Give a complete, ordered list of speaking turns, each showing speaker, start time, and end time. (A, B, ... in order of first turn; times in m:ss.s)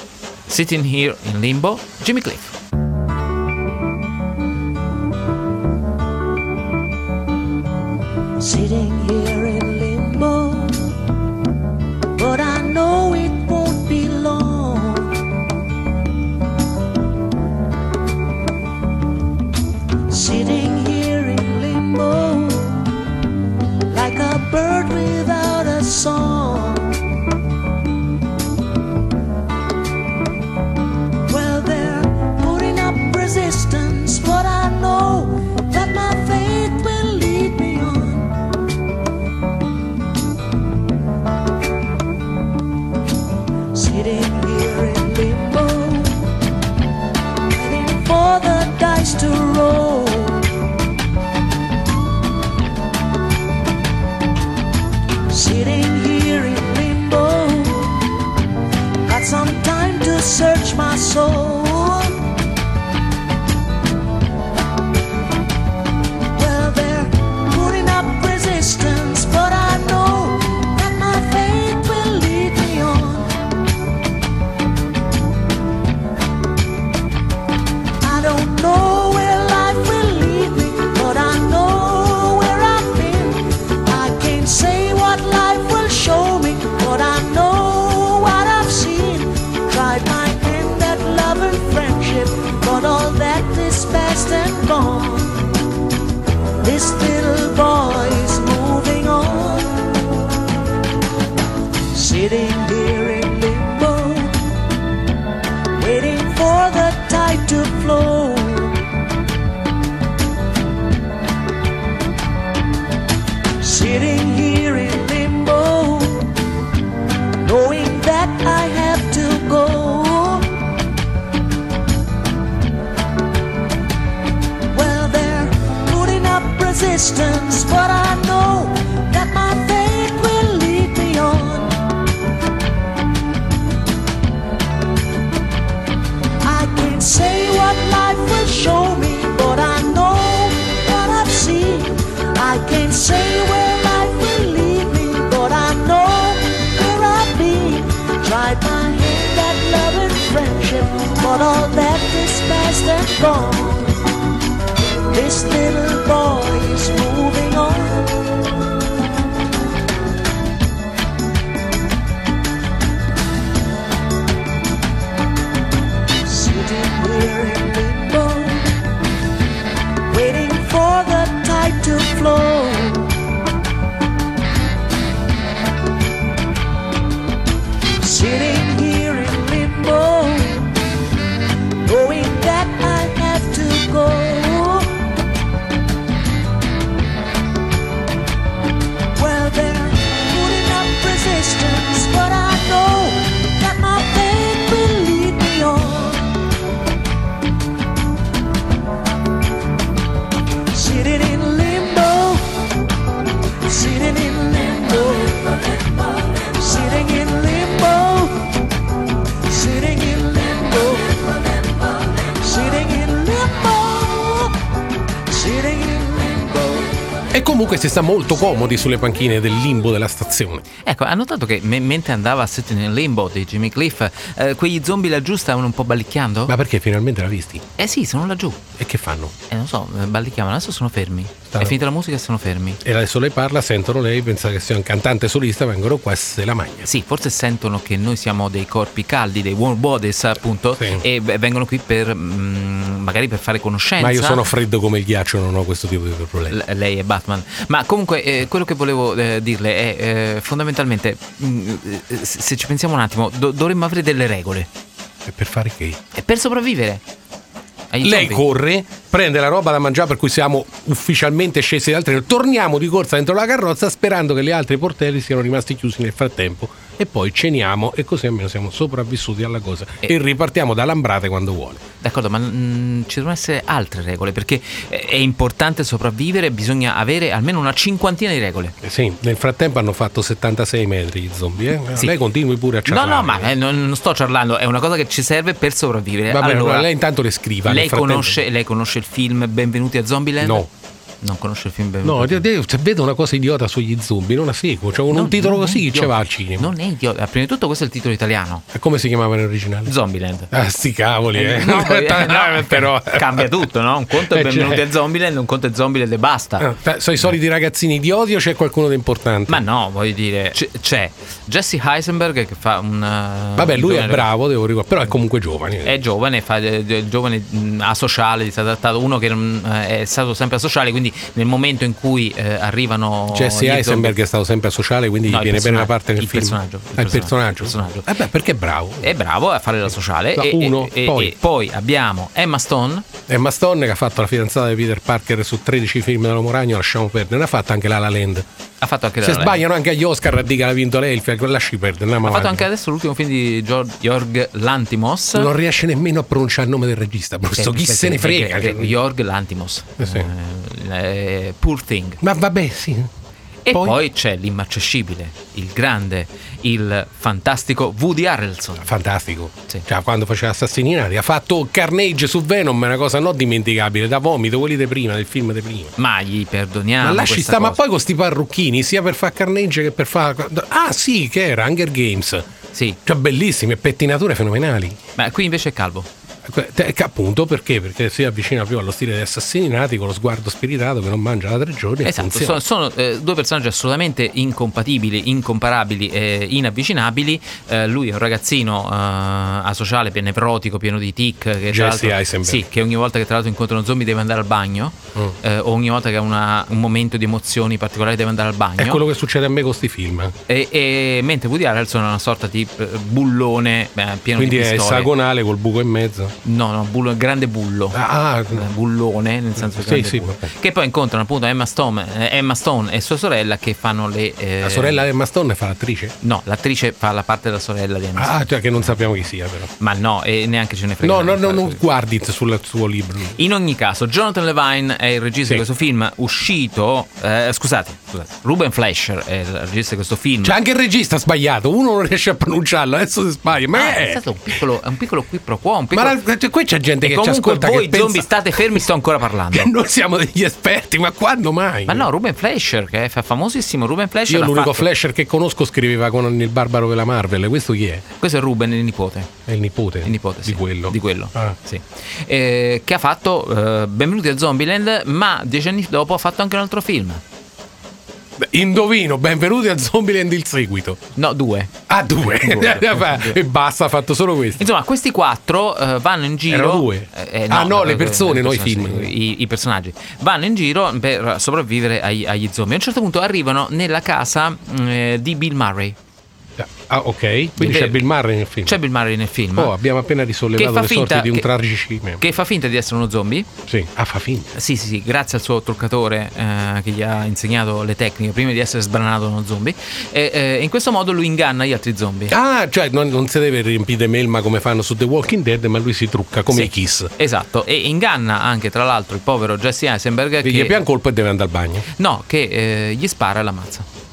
0:00.5-0:02.6 A
0:08.4-0:10.7 B
0:12.2-0:15.1 B
0:20.1-0:22.8 B
0:23.9-0:26.9 B
0:31.3-0:38.3 B
0:43.7-0:46.1 B
0:47.6-0:50.4 B
0:55.3-0:57.9 B
0:59.1-1:02.2 B
1:06.4-1:13.3 B
1:18.0-1:35.4 B
1:36.6-1:39.7 B
1:41.9-1:44.3 B
1:45.8-1:48.8 B
1:53.6-1:56.3 B
1:57.4-2:00.5 B
2:04.7-2:11.8 B
2:16.4-2:33.9 B
2:35.1-2:38.1 B
2:46.2-2:48.7 B
2:50.1-2:53.1 B
2:58.0-3:00.7 B
3:01.8-3:04.9 B
3:09.2-3:16.2 B
3:20.7-3:22.4 B
3:23.7-3:28.4 B
3:29.5-3:31.4 B
3:32.3-3:34.5 B
3:35.3-3:36.9 B
3:37.3-3:40.6 C
3:40.8-3:46.5 A
3:46.5-3:47.6 C
3:47.8-3:48.6 A
3:48.8-3:49.3 C
3:49.5-3:52.8 A
3:51.5-3:51.8 C
3:52.8-3:56.9 C
3:56.8-4:04.5 A
4:00.8-4:01.0 C
4:04.0-4:06.6 C
4:06.5-4:14.7 A
4:15.2-4:16.0 C
4:16.2-4:17.0 A
4:17.9-4:18.4 A
4:18.0-4:31.8 C
4:32.0-4:38.8 A
4:38.8-4:43.5 C
4:42.9-4:46.9 A
4:46.3-4:48.4 C
4:47.7-4:50.7 A
4:50.4-4:50.7 C
4:51.2-4:52.4 A
4:52.0-4:56.7 C
4:55.1-4:58.6 A
4:58.7-4:59.9 C
4:59.9-5:00.5 A
5:00.5-5:04.8 C
5:01.3-5:06.7 A
5:06.6-5:09.6 C
5:09.5-5:14.3 A
5:13.6-5:16.0 C
5:15.8-5:24.2 A
5:23.3-5:29.1 C
5:25.3-5:28.1 A
5:29.0-5:33.1 A
5:30.4-5:31.4 C
5:33.3-5:38.5 C
5:38.8-5:39.6 A
5:39.2-5:42.7 C
5:42.2-5:45.5 A
5:45.3-5:49.0 C
5:47.6-5:52.2 A
5:50.0-5:50.3 C
5:52.2-5:53.1 C
5:53.6-5:58.9 A
5:53.7-5:54.0 C
5:58.8-6:05.9 C
6:06.0-6:07.8 A
6:07.0-6:12.5 C
6:13.0-6:15.0 C
6:15.2-6:16.1 A
6:16.4-6:22.6 C
6:22.0-6:39.0 A
6:31.7-6:32.7 C
6:38.8-6:40.4 C
6:40.5-6:45.1 A
6:44.4-6:46.4 C
6:46.4-6:48.0 A
6:47.9-6:48.7 C
6:48.5-6:55.0 A
6:49.6-6:50.5 C
6:54.6-6:56.1 C
6:56.2-6:59.1 A
6:58.2-6:59.7 C
6:59.8-7:01.8 A
7:01.0-7:03.4 C
7:03.4-7:10.6 A
7:10.4-7:14.2 C
7:13.7-7:16.2 A
7:15.9-7:18.9 C
7:17.0-7:19.7 A
7:19.5-7:22.1 C
7:21.9-7:24.9 A
7:24.3-7:28.0 C
7:28.2-7:29.3 A
7:29.5-7:31.6 C
7:30.0-7:37.2 A
7:38.4-7:41.0 C
7:41.2-7:43.4 A
7:41.9-7:44.6 C
7:44.6-7:56.0 A
7:46.5-7:49.1 C
7:56.6-7:58.8 C
7:57.6-7:58.1 A
7:58.6-7:59.7 A
7:59.6-8:02.2 C
8:00.6-8:01.5 A
8:02.2-8:03.5 A
8:03.7-8:04.5 C
8:04.5-8:12.4 A
8:12.3-8:17.1 C
8:16.5-8:20.8 A
8:20.4-8:21.9 C
8:22.0-8:23.9 A